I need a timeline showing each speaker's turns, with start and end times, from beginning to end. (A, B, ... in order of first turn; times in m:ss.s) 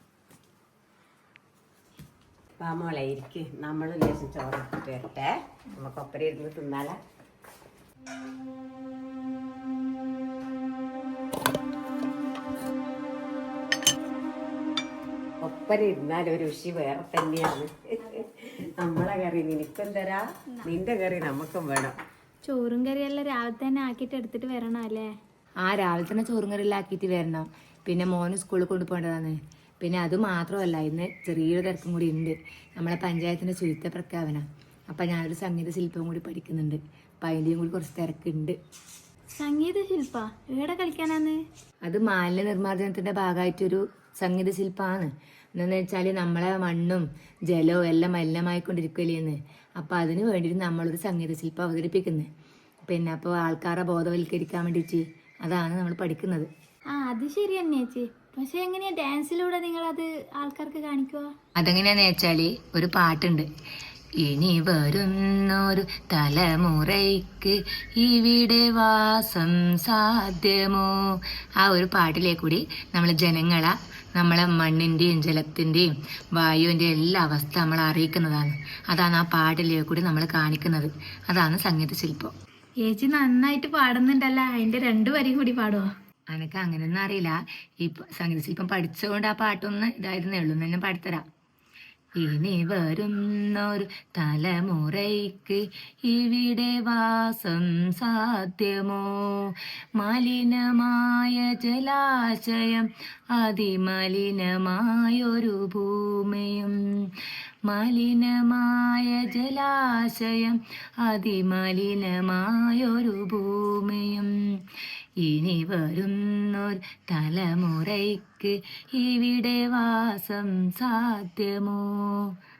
0:02.6-0:07.0 A
0:15.4-0:22.0 A
0:22.4-0:25.1 B
0:25.6-0:38.6 C
0:39.4-0:41.4 B
0:41.8-0:52.3 C
0:52.9-0:56.5 C
0:57.0-1:01.3 B
1:01.6-1:03.4 C
1:04.2-1:22.3 C
1:22.8-1:25.9 B
1:26.3-1:31.2 C
1:32.2-1:46.7 C
1:47.7-1:54.3 C
1:55.2-2:02.3 C